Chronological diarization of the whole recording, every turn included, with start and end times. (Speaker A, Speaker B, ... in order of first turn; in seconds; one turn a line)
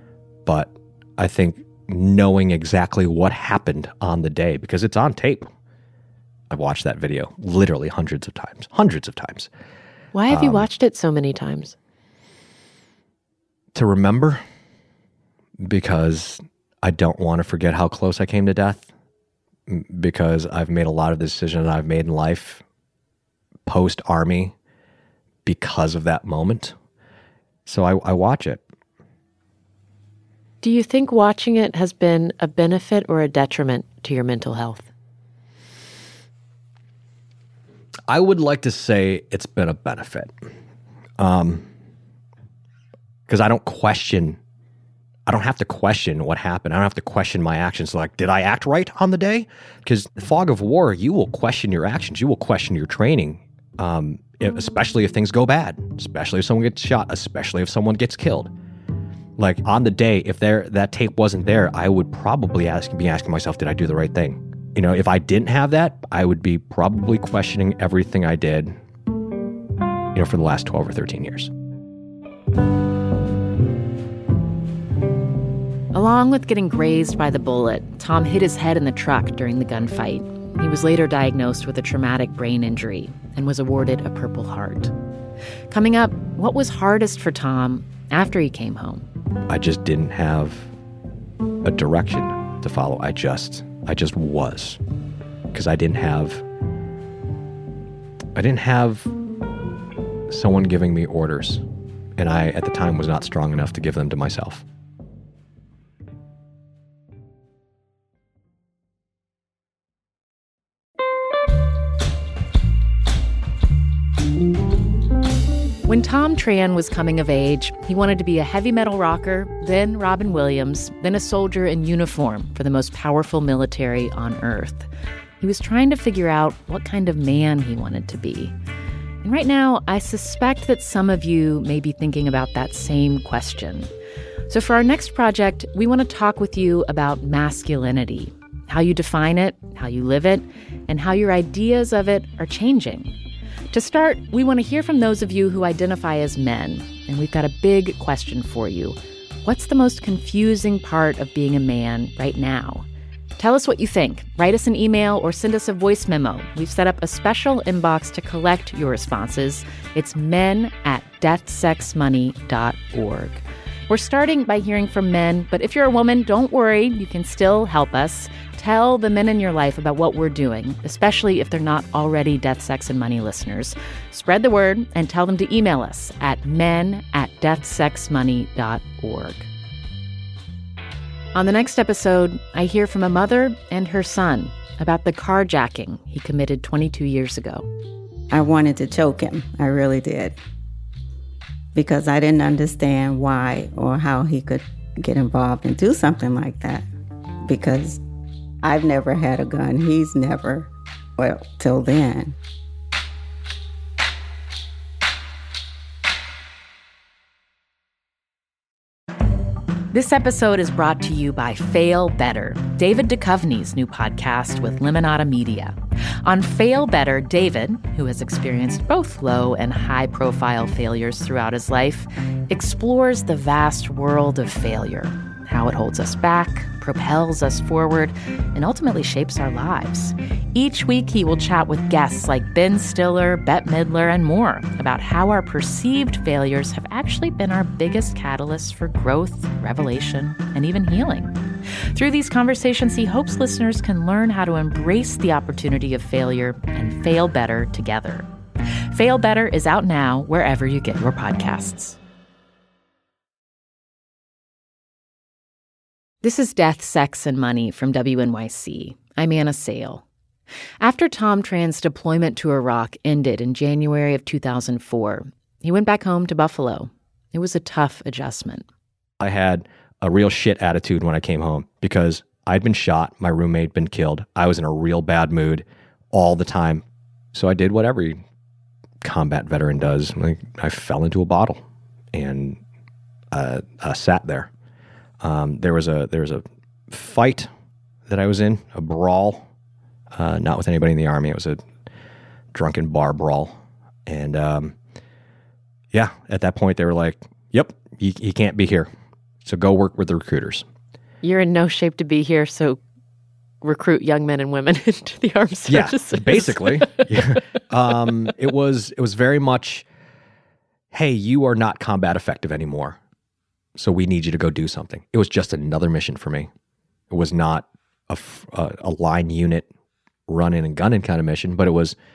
Speaker A: 0.5-5.5
Speaker A: 6.5-9.5
Speaker B: 10.1-11.8
Speaker A: 10.3-10.7
Speaker A: 13.7-14.4
Speaker A: 15.6-18.9
Speaker A: 19.7-22.6
Speaker A: 23.7-24.6
Speaker A: 25.5-26.8
Speaker A: 27.7-28.6
Speaker B: 30.6-34.9
Speaker A: 38.1-40.3
Speaker A: 41.2-41.7
Speaker A: 43.3-44.4
Speaker A: 45.3-58.5
Speaker A: 59.4-68.8
Speaker A: 70.1-71.5
Speaker C: 75.9-84.9
Speaker C: 85.7-89.1
Speaker A: 89.5-90.7
Speaker A: 91.6-94.8
Speaker A: 95.5-96.4
Speaker A: 98.3-99.1
Speaker A: 100.3-101.6
Speaker A: 102.2-104.7
Speaker C: 115.8-124.9
Speaker C: 125.4-128.5
Speaker C: 129.2-133.9
Speaker C: 134.5-143.2
Speaker C: 143.7-152.9
Speaker C: 153.4-179.5
Speaker C: 181.3-187.7
Speaker D: 188.3-190.4
Speaker D: 191.7-196.9
Speaker D: 197.4-198.0
Speaker D: 198.6-202.4
Speaker C: 209.9-241.4
Speaker C: 241.9-248.3
Speaker C: 248.9-252.0
Speaker C: 256.2-260.0
Speaker C: 260.8-268.6
Speaker A: 269.2-278.2
Speaker A: 279.0-282.6
Speaker A: 283.3-284.5
Speaker A: 285.2-287.5
Speaker A: 288.1-289.5
Speaker A: 290.1-291.6
Speaker A: 292.5-294.8
Speaker A: 295.9-298.9
Speaker A: 299.4-300.7
Speaker B: 301.2-302.8
Speaker B: 303.6-307.5
Speaker A: 305.7-309.9
Speaker A: 310.9-313.0
Speaker A: 313.8-316.5
Speaker A: 317.1-319.7
Speaker A: 320.3-322.0